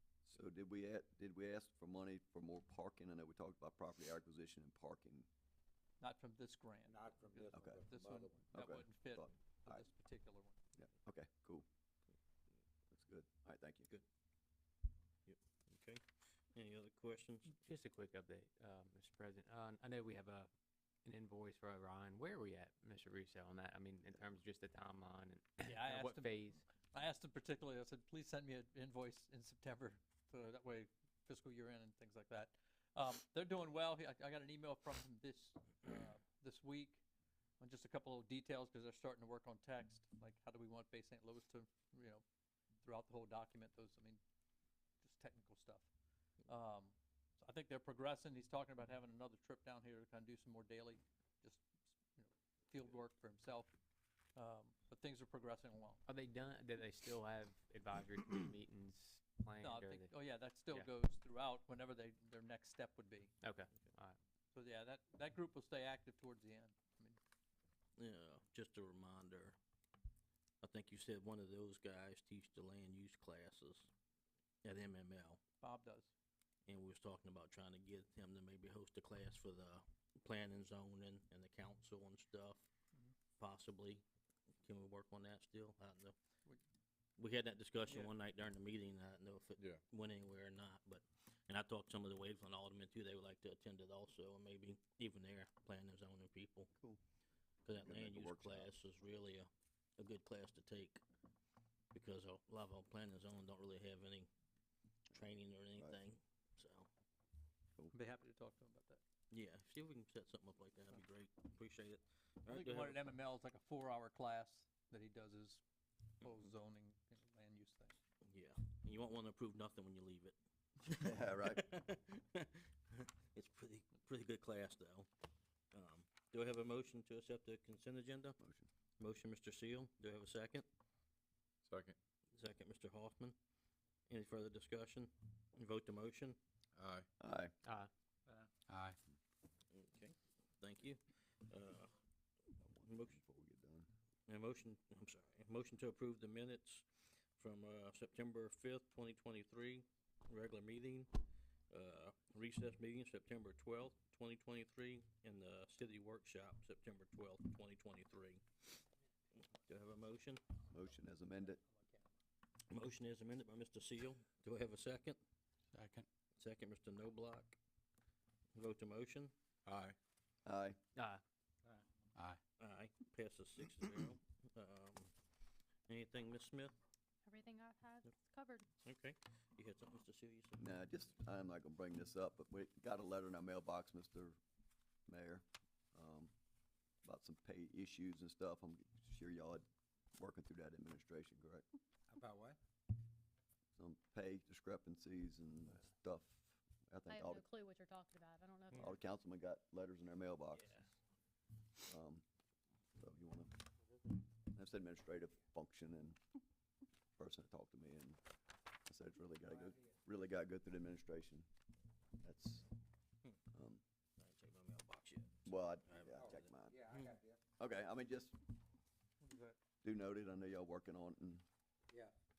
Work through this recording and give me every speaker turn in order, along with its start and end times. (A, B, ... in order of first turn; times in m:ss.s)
0:00.2-0:05.3 A
0:06.0-0:10.6 B
0:06.9-0:08.4 C
0:07.5-0:07.8 A
0:08.5-0:09.8 A
0:10.8-0:11.6 A
0:12.9-0:13.9 A
0:15.2-0:16.0 D
0:16.5-0:17.6 D
0:17.5-0:20.5 E
0:21.0-0:26.6 E
0:25.6-0:37.0 B
0:37.6-0:42.2 B
0:42.8-0:44.2 B
0:45.0-0:45.9 B
0:46.5-0:53.7 B
0:54.4-0:56.0 B
0:56.1-1:00.1 E
0:59.6-1:03.3 B
1:03.4-1:04.2 E
1:04.5-1:07.2 B
1:08.0-1:09.6 D
1:10.6-1:13.9 D
1:14.6-1:15.4 D
1:15.6-1:16.1 B
1:16.7-1:22.7 D
1:23.4-1:24.0 D
1:24.6-1:26.1 D
1:27.2-1:36.7 D
1:29.6-1:29.8 F
1:37.6-1:41.0 D
1:37.7-1:38.7 A
1:41.9-1:44.3 D
1:45.1-1:46.9 D
1:47.9-1:49.0 B
1:49.3-1:53.1 D
1:52.5-1:55.6 B
1:56.2-1:58.0 B
1:58.2-2:05.1 D
2:00.8-2:01.7 A
2:05.7-2:08.4 D
2:08.4-2:08.7 A
2:09.0-2:10.6 D
2:11.6-2:12.0 F
2:12.3-2:13.3 D
2:14.1-2:16.4 D
2:16.7-2:17.1 F
2:17.2-2:17.5 A
2:18.6-2:19.0 F
2:19.7-2:21.9 D
2:22.6-2:23.9 A
2:22.8-2:23.2 D
2:24.3-2:26.8 D
2:27.4-2:40.4 D
2:40.7-2:41.6 A
2:42.7-2:45.2 D
2:45.7-2:46.1 F
2:46.4-2:47.6 D
2:48.6-2:49.3 D
2:49.6-2:50.0 F
2:50.4-2:50.8 A
2:51.0-2:51.2 E
2:52.1-2:52.4 F
2:52.6-2:55.1 D
2:55.9-2:56.7 D
2:57.2-2:58.7 G
2:58.8-3:00.6 D
3:00.6-3:04.4 A
3:05.1-3:06.3 A
3:07.0-3:09.6 A
3:10.2-3:11.6 A
3:12.1-3:12.6 C
3:13.8-3:17.4 A
3:17.1-3:18.9 G
3:18.7-3:20.8 A
3:21.9-3:22.2 A
3:23.0-3:23.5 A
3:24.5-3:26.2 A
3:27.2-3:28.2 A
3:28.9-3:31.4 A
3:32.2-3:32.7 A
3:33.5-3:33.8 A
3:34.2-3:37.2 D
3:35.4-3:36.8 A
3:36.2-3:37.4 C
3:37.6-3:38.4 A
3:39.2-3:39.6 B
3:39.8-3:41.4 A
3:41.9-3:42.1 C